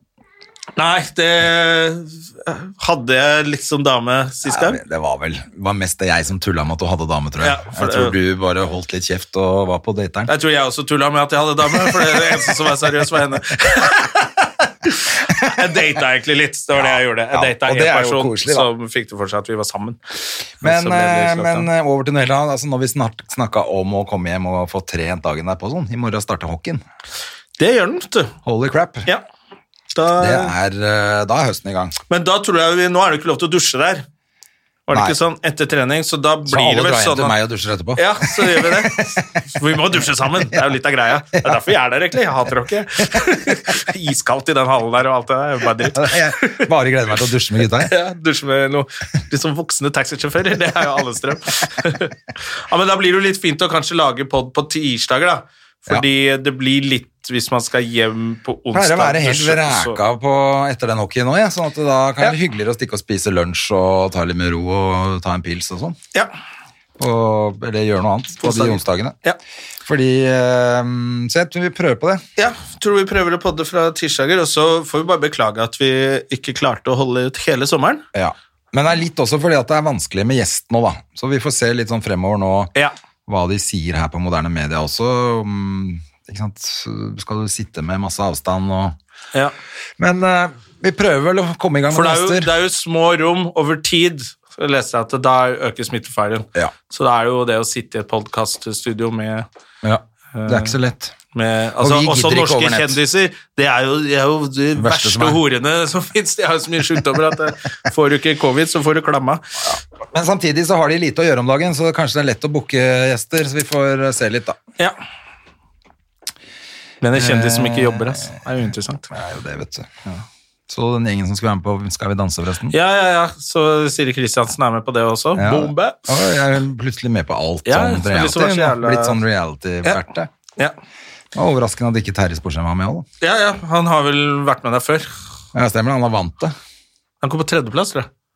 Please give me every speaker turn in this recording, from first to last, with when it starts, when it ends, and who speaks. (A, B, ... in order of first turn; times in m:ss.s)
0:00.8-0:04.8 A
0:04.4-0:10.3 B
0:07.4-0:08.2 A
0:10.3-0:20.0 A
0:11.9-0:12.3 B
0:15.3-0:15.6 B
0:16.7-0:18.7 B
0:20.6-0:21.7 A
0:20.6-0:26.8 B
0:27.6-0:28.3 A
0:28.4-0:29.1 B
0:29.9-0:30.5 A
0:30.2-0:32.0 B
0:32.1-0:34.0 A
0:34.9-0:37.3 A
0:34.9-0:35.2 B
0:36.4-0:39.1 B
0:37.9-0:46.7 A
0:45.8-0:47.9 B
0:47.8-1:00.0 A
0:58.7-1:06.0 B
1:07.0-1:09.1 B
1:08.4-1:09.4 A
1:09.8-1:12.2 B
1:12.4-1:18.0 A
1:18.1-1:22.7 B
1:23.3-1:29.0 B
1:30.0-1:32.5 B
1:31.9-1:39.4 A
1:39.8-1:41.1 B
1:40.3-1:40.7 A
1:41.3-1:49.5 A
1:41.8-1:43.0 B
1:44.8-1:45.4 B
1:49.6-1:54.6 B
1:57.0-1:59.1 A
1:57.1-1:58.4 B
1:59.1-1:59.9 B
2:00.7-2:02.7 B
2:02.7-2:06.1 A
2:05.3-2:10.3 B
2:07.6-2:09.2 A
2:11.3-2:13.0 B
2:13.2-2:15.1 A
2:15.5-2:16.5 B
2:17.2-2:18.1 A